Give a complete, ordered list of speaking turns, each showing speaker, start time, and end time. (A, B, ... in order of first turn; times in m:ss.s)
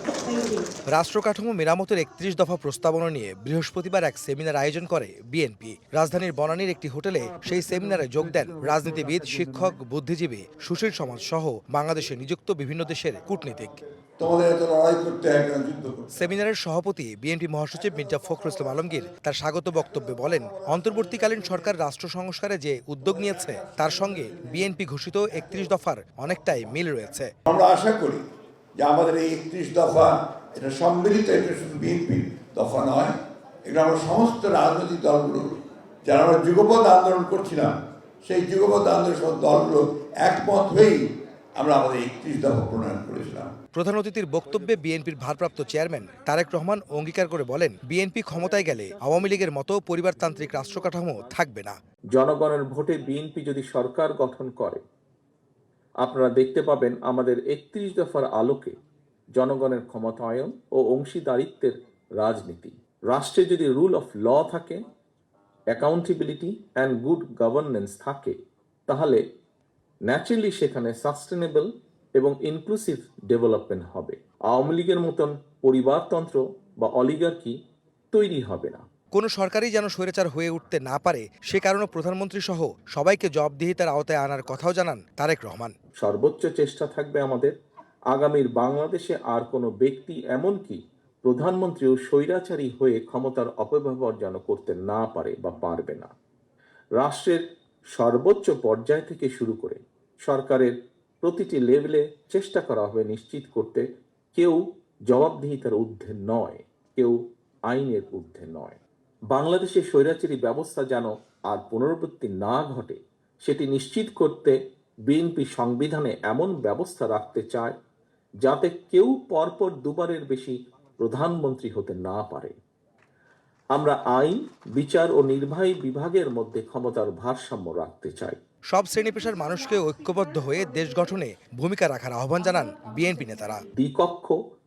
0:00.3-0:00.7 A
0:00.9-0:13.8 B
0:14.2-0:16.3 C
0:16.1-0:27.3 B
0:17.7-0:19.2 C
0:19.7-0:21.7 C
0:23.0-0:24.7 C
0:25.4-0:25.7 C
0:27.5-0:28.2 C
0:28.8-0:41.0 C
0:41.6-0:43.5 C
0:43.8-0:51.8 B
0:52.1-0:54.8 D
0:56.0-0:58.8 D
0:59.4-1:04.8 D
1:05.7-1:08.4 D
1:08.9-1:09.2 D
1:10.1-1:17.6 D
1:18.1-1:18.8 D
1:19.1-1:25.7 B
1:26.0-1:27.5 D
1:28.1-1:36.1 D
1:37.0-1:37.4 D
1:38.0-1:47.2 D
1:47.7-1:48.8 D
1:49.3-1:54.6 D
1:55.1-1:57.7 D
1:58.4-2:02.5 D
2:03.8-2:08.4 D
2:08.7-2:13.6 B
2:09.1-2:11.0 A
2:12.6-2:13.6 A
2:13.8-2:14.4 D